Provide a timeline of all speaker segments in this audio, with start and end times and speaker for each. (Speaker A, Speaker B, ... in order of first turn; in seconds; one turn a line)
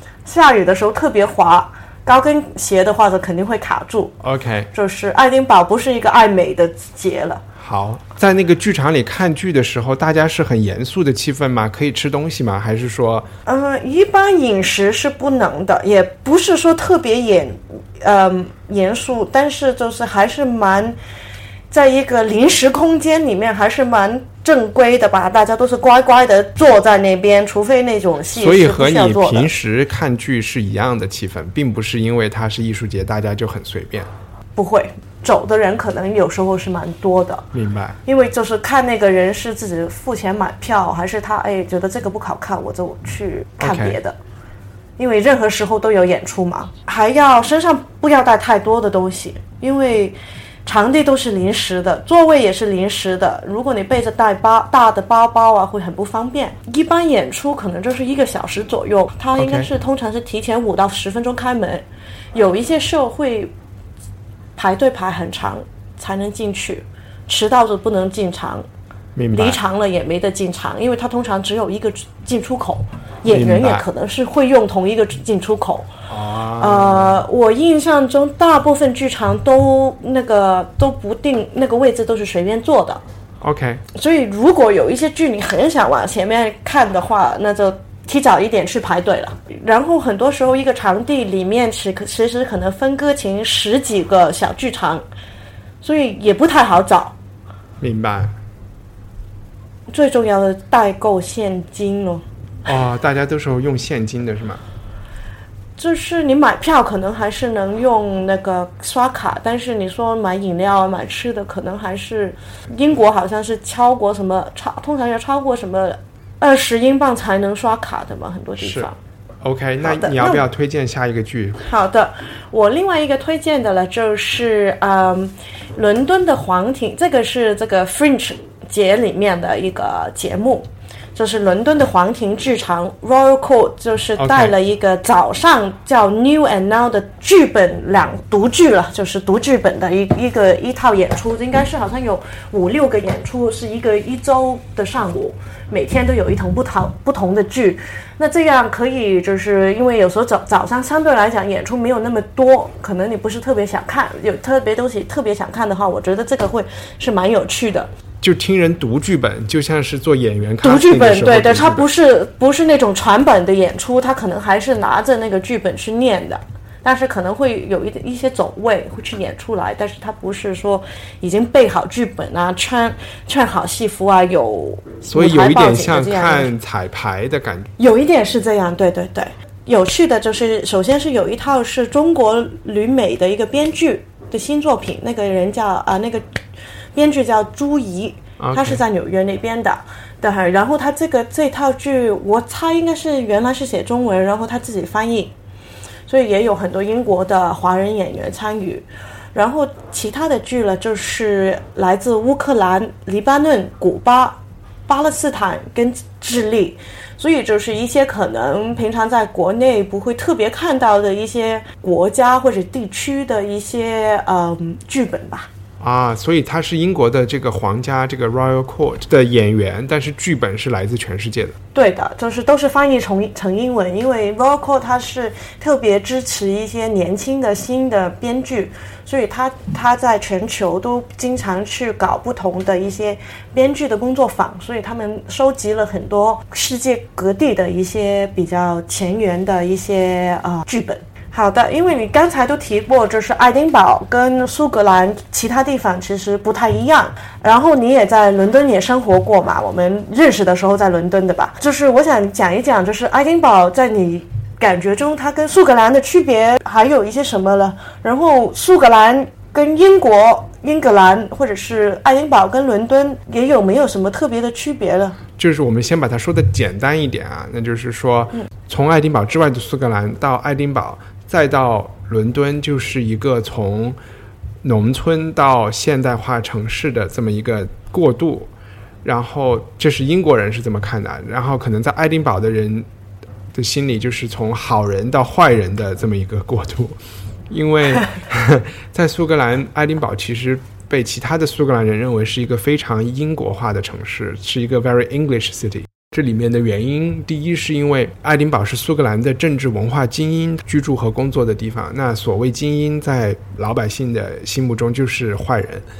Speaker A: 0.2-4.1
Speaker B: 4.2-4.7
Speaker A: 4.7-7.4
Speaker B: 7.6-13.3
Speaker A: 13.4-21.0
Speaker A: 21.7-29.5
Speaker B: 28.3-34.1
Speaker A: 34.5-37.5
Speaker B: 37.5-38.0
Speaker A: 38.0-44.2
Speaker B: 43.6-44.0
Speaker A: 45.0-63.5
Speaker B: 59.4-59.7
Speaker A: 64.5-68.7
Speaker B: 69.1-69.6
Speaker A: 69.3-75.9
Speaker B: 73.2-73.8
Speaker B: 76.1-77.2
Speaker A: 76.6-83.0
Speaker B: 83.4-83.8
Speaker A: 83.9-95.0
Speaker A: 95.8-97.1
Speaker B: 97.8-98.3
Speaker A: 99.9-102.2
Speaker B: 102.6-104.6
Speaker A: 105.8-119.0
Speaker B: 118.6-118.9
Speaker B: 119.4-121.6
Speaker A: 119.8-120.4
Speaker A: 121.6-157.9
Speaker B: 134.2-134.5
Speaker B: 158.2-161.9
Speaker A: 160.6-176.5
Speaker B: 175.1-177.7
Speaker A: 177.8-186.2
Speaker A: 186.9-195.3
Speaker B: 188.4-188.8
Speaker A: 196.1-215.5
Speaker B: 215.8-221.6
Speaker A: 221.7-265.2
Speaker B: 265.4-274.0
Speaker B: 274.6-278.5
Speaker B: 279.0-282.9
Speaker B: 283.5-287.0
Speaker B: 287.5-305.9